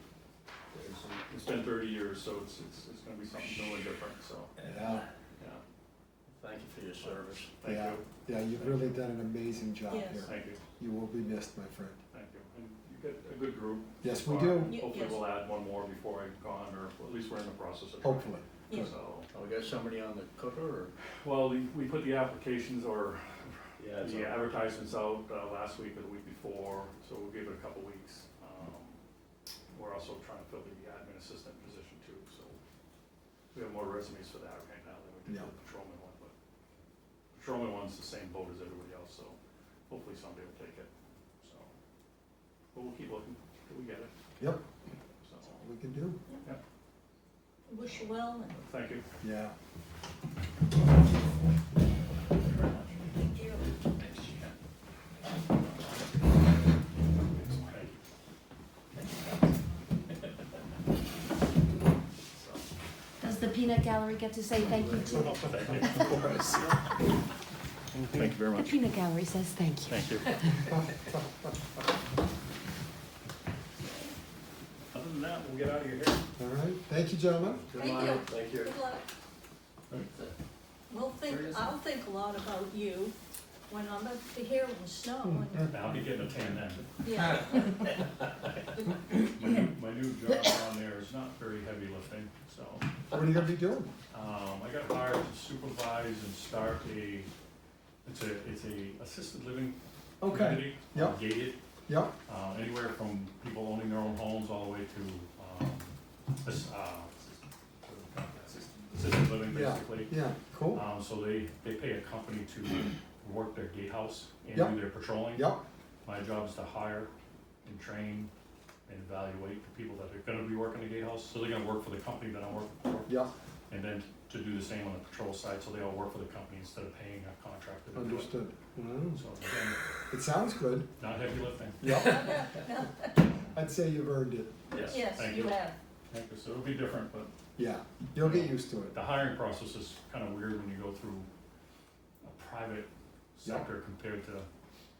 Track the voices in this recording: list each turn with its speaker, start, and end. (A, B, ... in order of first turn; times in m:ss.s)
0:00.7-0:01.2 A
0:01.3-0:04.5 B
0:04.6-0:05.0 A
0:04.6-0:05.0 C
0:06.3-0:07.5 A
0:07.0-0:09.0 B
0:07.6-0:12.0 C
0:09.9-0:10.2 D
0:10.2-0:10.6 B
0:12.1-0:19.3 B
0:14.0-0:14.8 C
0:14.6-0:15.2 D
0:18.0-0:18.4 C
0:18.7-0:18.9 D
0:19.3-0:20.9 A
0:21.2-0:29.0 B
0:23.8-0:24.4 A
0:29.7-0:32.6 B
0:33.5-0:36.3 B
0:37.3-0:39.4 B
0:39.9-0:40.9 B
0:41.4-0:41.7 B
0:42.7-0:44.1 B
0:45.2-0:45.6 B
0:45.6-0:46.2 C
0:47.7-0:48.6 D
0:48.6-0:49.0 B
0:49.2-0:49.5 C
0:52.4-0:53.0 B
0:53.1-0:53.8 D
0:54.0-0:54.6 B
0:55.5-0:58.0 B
1:02.3-1:02.6 B
1:03.2-1:06.1 E
1:05.0-1:06.9 B
1:07.9-1:08.3 A
1:08.1-1:08.8 B
1:08.5-1:10.7 E
1:09.9-1:10.4 B
1:10.7-1:11.2 C
1:14.9-1:16.2 B
1:16.4-1:17.6 C
1:17.7-1:18.7 A
1:17.8-1:19.0 D
1:20.9-1:23.1 D
1:21.2-1:21.7 A
1:23.7-1:25.7 D
1:25.6-1:27.3 B
1:27.0-1:27.7 D
1:29.2-1:33.5 B
1:33.1-1:33.9 C
1:34.1-1:37.3 B
1:38.0-1:41.6 B
1:40.2-1:41.2 C
1:41.9-1:42.2 C
1:42.2-1:50.2 B
1:49.4-1:50.8 C
1:50.7-1:55.5 B
1:54.5-1:55.6 C
1:56.0-1:57.1 B
1:57.6-1:58.3 B
1:58.9-2:03.1 B
2:03.7-2:08.3 B
2:07.9-2:09.2 C
2:09.1-2:09.8 B
2:10.1-2:10.9 C
2:11.0-2:11.9 B
2:11.8-2:12.5 C
2:11.8-2:13.1 D
2:13.5-2:14.6 C
2:14.7-2:17.3 B
2:14.8-2:15.8 D
2:17.6-2:19.0 C
2:18.2-2:21.3 B
2:22.2-2:24.5 B